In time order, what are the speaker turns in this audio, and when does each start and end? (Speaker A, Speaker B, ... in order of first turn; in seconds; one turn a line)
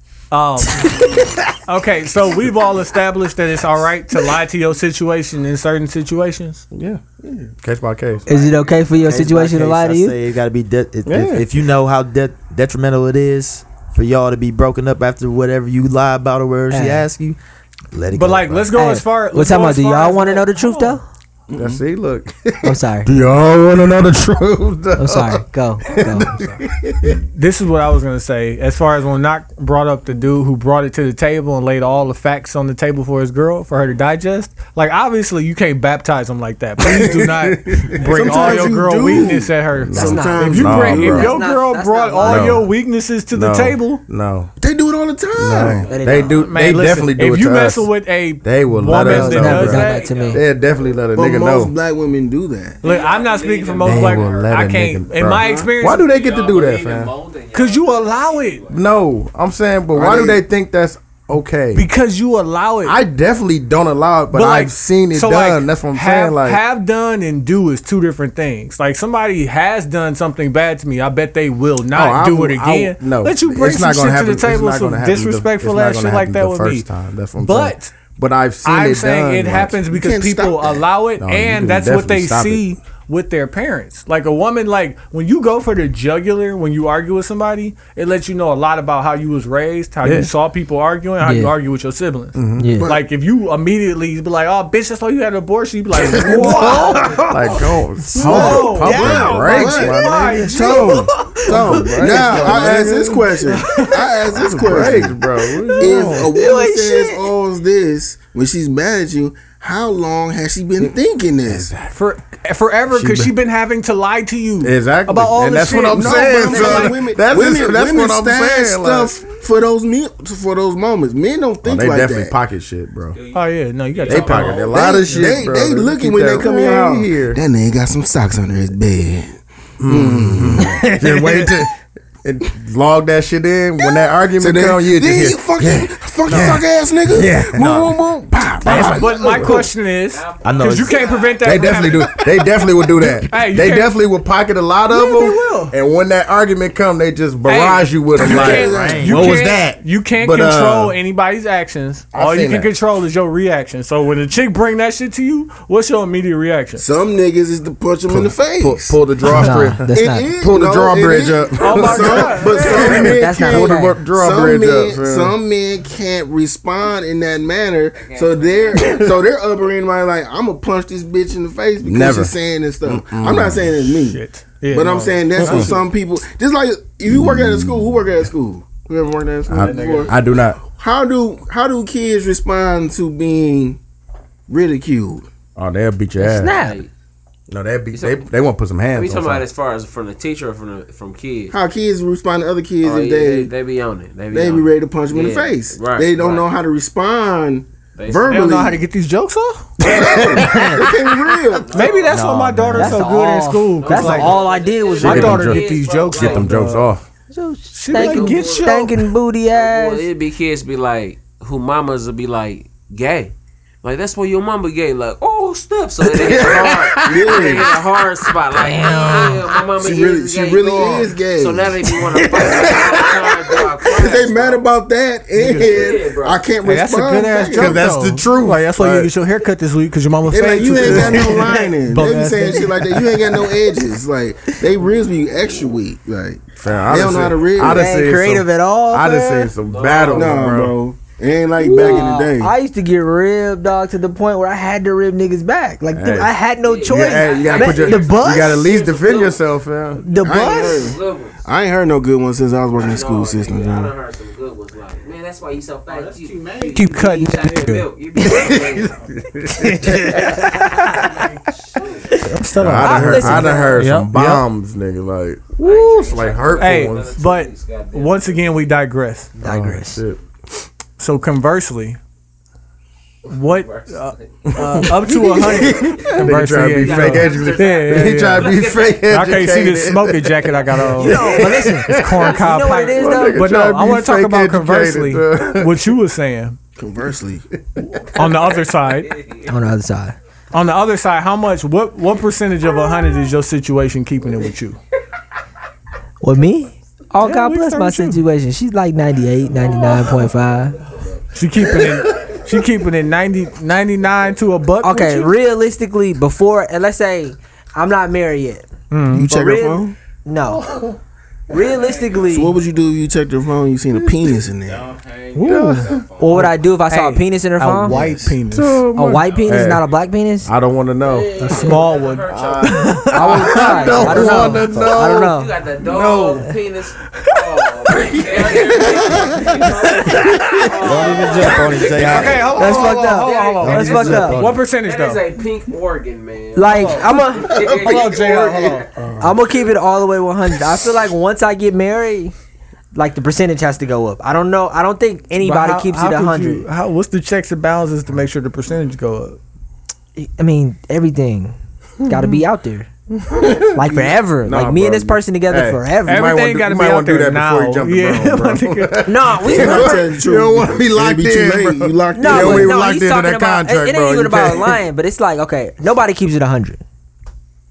Speaker A: 0.3-1.0
Speaker B: 0.7-1.4
Speaker A: 1.6-6.6
Speaker C: 6.7-7.0
Speaker D: 7.2-7.5
Speaker C: 7.6-8.2
Speaker E: 8.3-9.0
Speaker B: 8.3-10.1
Speaker F: 9.1-17.4
Speaker C: 11.1-11.4
Speaker B: 16.7-17.0
Speaker F: 17.9-18.7
Speaker A: 18.1-21.0
Speaker B: 18.7-21.0
Speaker D: 21.5-21.8
Speaker C: 21.5-27.2
Speaker B: 22.6-23.1
Speaker B: 25.0-26.4
Speaker A: 27.3-44.0
Speaker C: 36.8-41.3
Speaker D: 38.1-41.4
Speaker B: 39.9-42.6
Speaker C: 42.2-42.6
Speaker C: 43.3-44.5
Speaker D: 44.6-45.9
Speaker C: 45.4-47.9
Speaker E: 45.8-46.5
Speaker B: 45.9-46.4
Speaker A: 46.5-50.1
Speaker C: 48.4-51.7
Speaker B: 48.9-50.4
Speaker E: 49.7-51.0
Speaker D: 51.1-52.8
Speaker E: 52.8-54.6
Speaker A: 52.8-56.1
Speaker C: 53.8-57.1
Speaker D: 55.4-55.7
Speaker E: 56.0-58.8
Speaker A: 57.5-58.7
Speaker C: 58.7-61.9
Speaker D: 59.9-60.4
Speaker A: 61.7-63.0
Speaker C: 62.8-66.6
Speaker A: 64.3-76.8
Speaker C: 71.9-79.8
Speaker A: 77.4-77.9
Speaker A: 78.6-97.3
Speaker D: 79.9-80.8
Speaker C: 81.2-82.7
Speaker C: 90.0-90.3
Speaker B: 91.2-91.5
Speaker C: 92.3-92.9
Speaker B: 92.6-93.0
Speaker C: 96.2-100.5
Speaker B: 96.3-97.5
Speaker B: 98.1-99.9
Speaker A: 98.1-101.0
Speaker D: 98.3-105.1
Speaker B: 100.5-102.4
Speaker C: 101.4-103.3
Speaker A: 103.5-104.0
Speaker B: 103.7-104.8
Speaker C: 104.3-106.3
Speaker B: 105.5-107.3
Speaker D: 105.8-111.7
Speaker C: 111.5-111.9
Speaker A: 111.9-117.0
Speaker C: 112.9-113.3
Speaker C: 114.6-119.2
Speaker D: 115.9-122.3
Speaker C: 121.6-123.2
Speaker E: 123.1-125.2
Speaker A: 123.3-124.7
Speaker C: 124.0-127.4
Speaker D: 124.7-130.7
Speaker C: 129.8-137.7
Speaker D: 134.4-139.7
Speaker F: 137.2-137.9
Speaker C: 138.6-139.6
Speaker A: 138.6-142.2
Speaker E: 139.9-141.9
Speaker F: 140.4-141.0
Speaker C: 141.4-150.9
Speaker A: 143.3-143.9
Speaker A: 144.9-145.7
Speaker A: 147.5-156.8
Speaker D: 148.2-149.0
Speaker F: 148.3-149.7
Speaker C: 152.1-152.7
Speaker D: 156.8-159.0
Speaker C: 158.1-159.9
Speaker B: 159.3-160.3
Speaker D: 159.9-183.8
Speaker C: 160.4-165.3
Speaker A: 161.6-163.1
Speaker B: 162.8-164.0
Speaker E: 167.9-168.9
Speaker C: 171.8-172.3
Speaker C: 172.8-173.7
Speaker A: 173.9-175.8
Speaker C: 175.4-175.8
Speaker C: 177.1-178.3
Speaker C: 179.5-180.6
Speaker A: 179.7-180.0
Speaker E: 179.8-180.1
Speaker D: 184.5-185.3
Speaker C: 185.6-186.5
Speaker B: 186.2-186.8
Speaker E: 186.4-186.9
Speaker C: 187.5-189.5
Speaker E: 187.9-188.2
Speaker E: 188.9-191.5
Speaker D: 191.5-193.5
Speaker E: 192.8-196.5
Speaker D: 194.3-198.8
Speaker E: 197.9-198.4
Speaker A: 198.2-199.8
Speaker C: 199.8-201.1
Speaker D: 199.8-201.9
Speaker B: 200.4-200.7
Speaker E: 201.6-202.2
Speaker A: 201.7-206.9
Speaker F: 202.1-203.0
Speaker B: 202.7-205.5
Speaker E: 203.8-206.7
Speaker C: 205.0-207.0
Speaker B: 207.3-210.1
Speaker A: 207.7-209.1
Speaker E: 207.9-208.8
Speaker E: 209.5-224.6
Speaker C: 216.0-218.0
Speaker D: 217.0-217.7
Speaker B: 218.5-219.5
Speaker D: 219.8-221.8
Speaker C: 222.3-223.3
Speaker D: 223.9-227.9
Speaker E: 225.3-226.5
Speaker A: 226.6-233.0
Speaker C: 227.5-229.1
Speaker D: 230.3-237.9
Speaker C: 230.6-231.3
Speaker C: 236.6-240.8
Speaker B: 237.6-239.5
Speaker E: 239.6-240.5
Speaker D: 240.1-242.5
Speaker B: 241.6-248.7
Speaker C: 245.9-250.0
Speaker E: 246.6-249.4
Speaker B: 250.1-250.9
Speaker D: 250.1-253.9
Speaker E: 250.3-251.4
Speaker E: 252.8-259.0
Speaker A: 256.5-257.9
Speaker C: 258.3-260.2
Speaker B: 259.6-261.2
Speaker E: 260.4-262.2
Speaker B: 262.1-263.8
Speaker A: 262.2-264.4
Speaker C: 262.5-267.1
Speaker E: 265.6-268.4
Speaker A: 266.6-269.3
Speaker B: 269.4-270.0
Speaker C: 269.4-270.2
Speaker A: 271.0-272.0
Speaker A: 273.3-286.6
Speaker E: 273.4-274.9
Speaker C: 274.5-282.4
Speaker E: 275.6-279.4
Speaker B: 281.0-283.4
Speaker E: 281.1-281.3
Speaker C: 282.9-285.8
Speaker D: 286.8-287.5
Speaker A: 288.1-289.1
Speaker E: 288.9-289.5
Speaker B: 289.5-290.1
Speaker A: 290.5-294.8
Speaker B: 296.2-300.8
Speaker A: 297.2-298.2
Speaker A: 301.3-305.3
Speaker C: 301.7-302.4
Speaker B: 304.8-308.7
Speaker A: 308.9-309.3
Speaker D: 309.1-309.9
Speaker B: 309.2-310.6
Speaker C: 310.5-311.0
Speaker B: 311.5-312.5
Speaker E: 311.7-312.3
Speaker D: 312.3-314.9
Speaker E: 314.6-316.4
Speaker A: 315.3-318.8
Speaker C: 315.4-316.0
Speaker B: 316.2-318.0
Speaker D: 317.9-318.4
Speaker C: 318.4-319.9
Speaker B: 318.9-320.5
Speaker C: 320.4-321.3
Speaker E: 321.0-338.9
Speaker B: 321.4-321.8
Speaker A: 321.5-322.3
Speaker C: 322.3-326.5
Speaker B: 322.6-325.6
Speaker A: 322.9-324.6
Speaker C: 328.1-329.4
Speaker B: 330.0-330.6
Speaker F: 330.8-332.6
Speaker A: 332.0-335.3
Speaker B: 332.5-334.4
Speaker F: 333.6-334.5
Speaker B: 336.5-337.6
Speaker A: 336.7-337.1
Speaker D: 337.6-338.8
Speaker A: 337.8-338.9
Speaker C: 338.9-339.4
Speaker B: 339.2-342.3
Speaker B: 342.9-346.6
Speaker A: 345.4-349.4
Speaker B: 350.1-352.9
Speaker C: 352.0-352.4
Speaker C: 353.1-364.8
Speaker B: 353.7-356.3
Speaker A: 356.1-359.1
Speaker B: 359.1-360.1
Speaker D: 359.4-362.7
Speaker B: 362.1-366.8